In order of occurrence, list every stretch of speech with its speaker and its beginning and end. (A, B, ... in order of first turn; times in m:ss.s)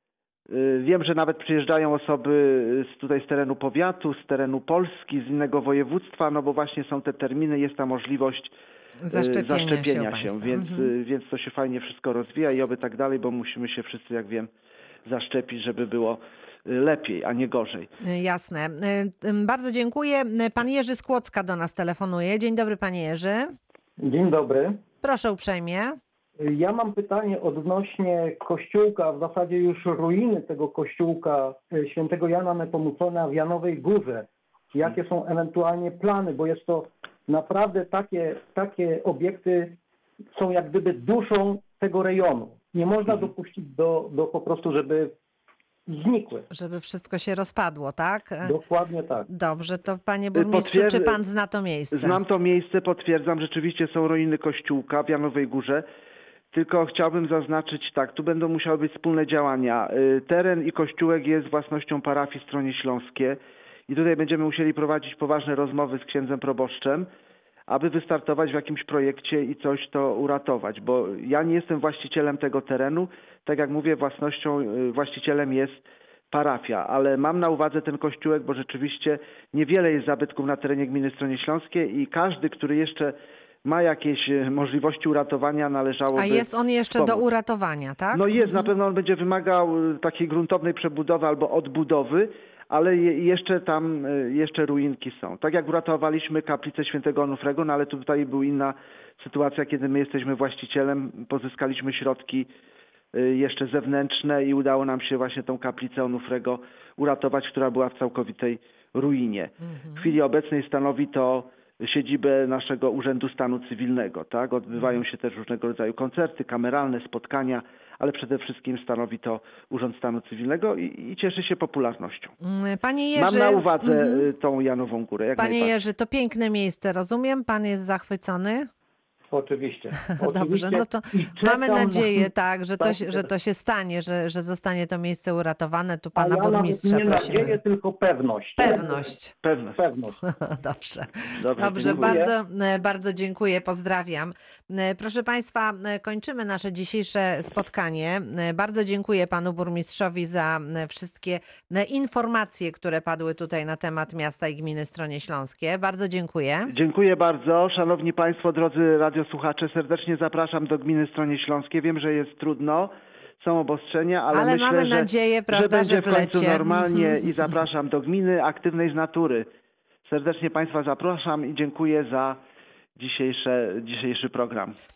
0:00.5-0:08.5 A
0:09.0-0:10.9 B
0:09.1-0:14.5 A
0:15.1-0:17.9 A
0:18.0-0:23.6 B
0:24.0-0:24.8 C
0:25.0-0:26.0 B
0:26.4-0:39.8 C
0:40.4-0:45.1 C
0:45.9-0:46.5 C
0:46.5-0:48.5 B
0:48.4-0:49.3 C
0:49.3-0:52.2 B
0:50.4-0:51.2 A
0:51.9-0:55.8 A
0:56.5-1:07.1 A
1:07.7-1:27.2 A
1:26.2-1:28.7 B
1:28.1-1:42.5 A
1:43.1-2:02.4 A
1:49.7-1:50.2 B
2:02.4-2:04.2 B
2:03.2-2:05.8 A
2:05.4-2:08.7 B
2:09.3-2:13.3 C
2:10.2-2:17.6 B
2:16.2-2:19.1 C
2:18.6-2:19.3 B
2:19.4-2:19.8 A
2:19.8-2:20.2 C
2:20.3-2:36.7 B
2:21.4-2:22.2 A
2:21.7-2:22.3 C
2:36.7-2:49.5 A
2:44.3-2:47.1 B
2:50.1-2:52.4 A
2:53.0-2:54.8 A